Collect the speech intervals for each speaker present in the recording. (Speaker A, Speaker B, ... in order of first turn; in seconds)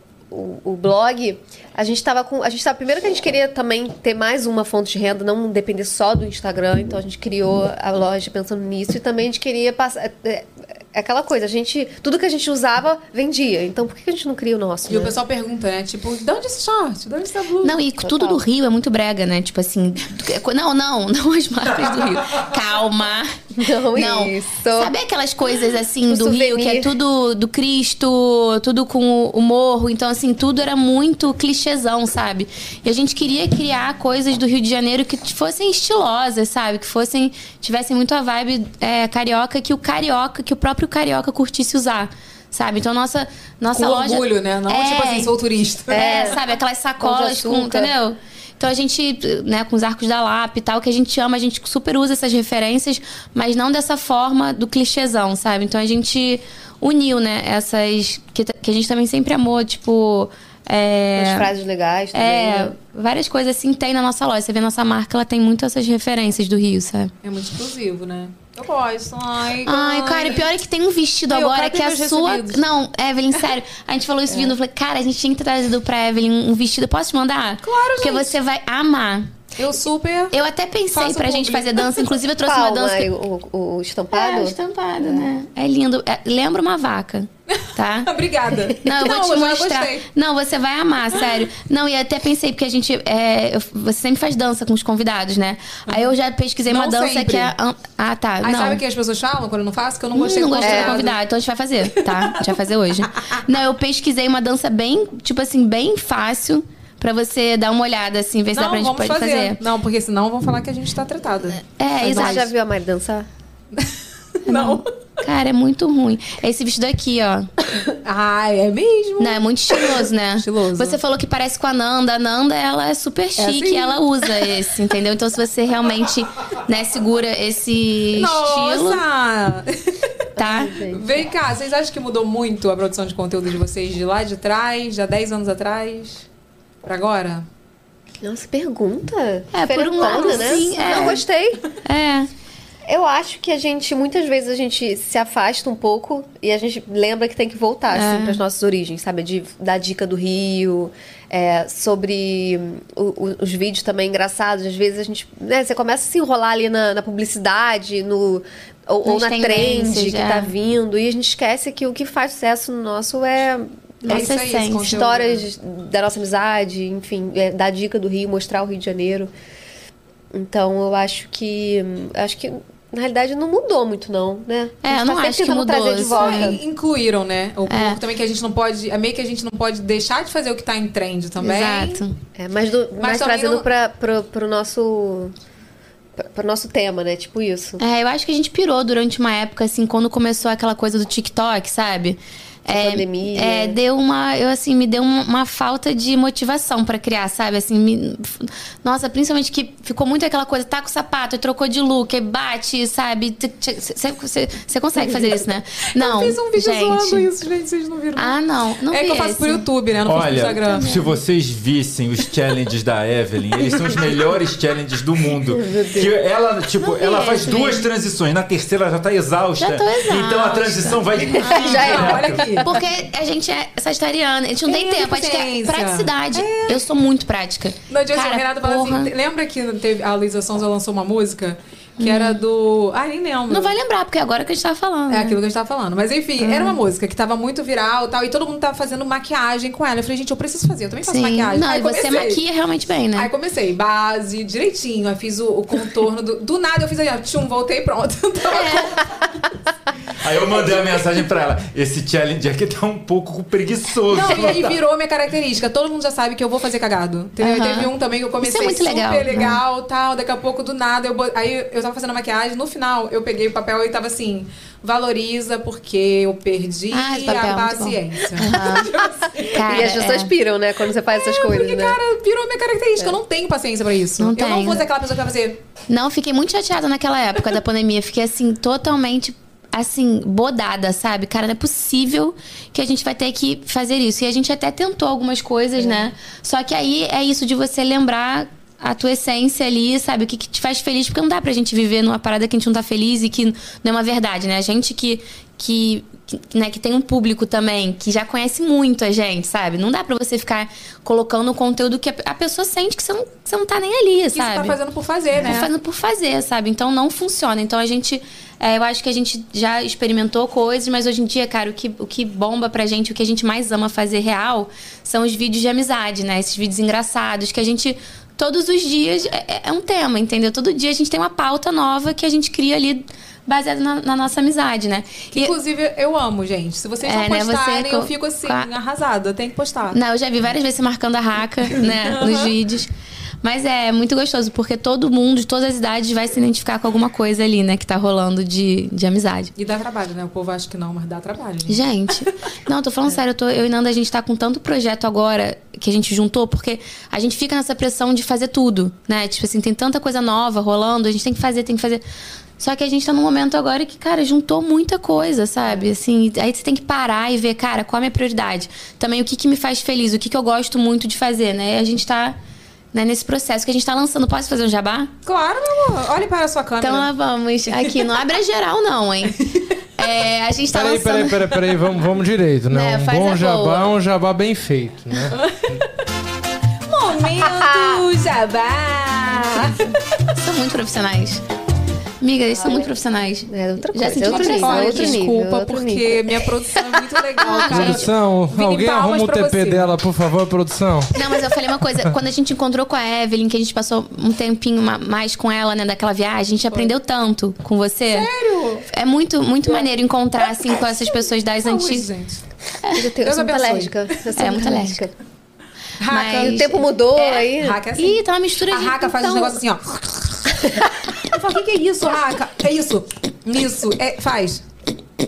Speaker A: 0.3-15.1, 18.0-18.4, 23.6-24.9, 26.1-26.9, 45.9-46.4, 47.0-47.9, 61.1-62.7, 82.4-85.3, 100.6-101.1, 112.0-113.3, 130.4-131.1, 138.2-141.6, 142.9-169.3, 170.3-176.6, 182.3-185.3, 186.2-187.8, 192.7-193.8, 215.5-216.1, 221.5-222.4, 268.5-272.0, 377.6-378.0, 382.5-382.9, 383.5-387.9, 402.9-405.1, 406.4-407.8, 409.2-409.6
Speaker B: 14.9-17.8, 43.7-46.4, 67.2-70.5, 71.3-72.6, 77.6-78.3, 79.6-80.3, 80.9-82.1, 87.5-90.0, 96.7-97.5, 98.4-101.2, 102.0-102.5, 108.5-112.5, 114.5-114.8, 118.0-121.0, 123.4-124.0, 128.2-130.1, 130.7-136.2, 136.8-137.4, 140.2-141.1, 164.0-165.4, 176.1-182.0, 183.0-183.7, 205.0-205.4, 205.9-208.4, 208.9-210.8, 221.4-222.7, 224.7-226.8, 227.9-233.8, 235.1-242.4, 243.1-249.2, 254.1-270.0, 271.1-275.6, 304.3-305.7, 325.3-330.0, 331.8-332.5, 339.6-341.8, 365.2-367.1, 367.7-368.1, 375.3-375.8, 376.9-379.9, 384.2-389.9, 398.1-398.9, 401.6-402.4, 403.2-404.1, 406.0-406.6, 407.5-410.6, 411.2-414.6
Speaker C: 17.6-23.3, 23.9-45.3, 45.9-61.5, 62.1-67.1, 69.6-79.3, 80.3-83.1, 84.1-88.1, 88.8-98.8, 100.1-109.6, 111.8-112.4, 114.5-117.5, 119.2-129.0, 130.4-130.7, 139.5-141.2, 141.8-142.3, 147.9-148.4, 159.0-160.5, 164.0-165.0, 174.8-176.6, 177.7-178.0, 181.4-182.2, 187.8-207.3, 208.2-209.6, 210.7-211.2, 216.8-217.9, 219.6-221.9, 222.6-229.1, 232.0-232.4, 233.5-235.4, 236.4-236.8, 241.0-243.3, 248.5-249.0, 257.4-257.9, 258.4-259.6, 266.9-270.3, 274.2-274.8, 275.9-304.8, 305.4-325.6, 327.0-328.7, 329.9-332.9, 333.4-339.5, 341.7-352.0, 352.6-362.4, 362.9-365.1, 366.8-371.5, 372.7-373.9, 380.3-381.4, 382.2-385.2, 391.1-398.3, 398.9-402.1, 402.8-403.1, 404.4-405.0, 406.1-409.1
Speaker D: 210.0-222.6, 250.2-254.8
Speaker E: 370.7-375.4, 387.6-391.1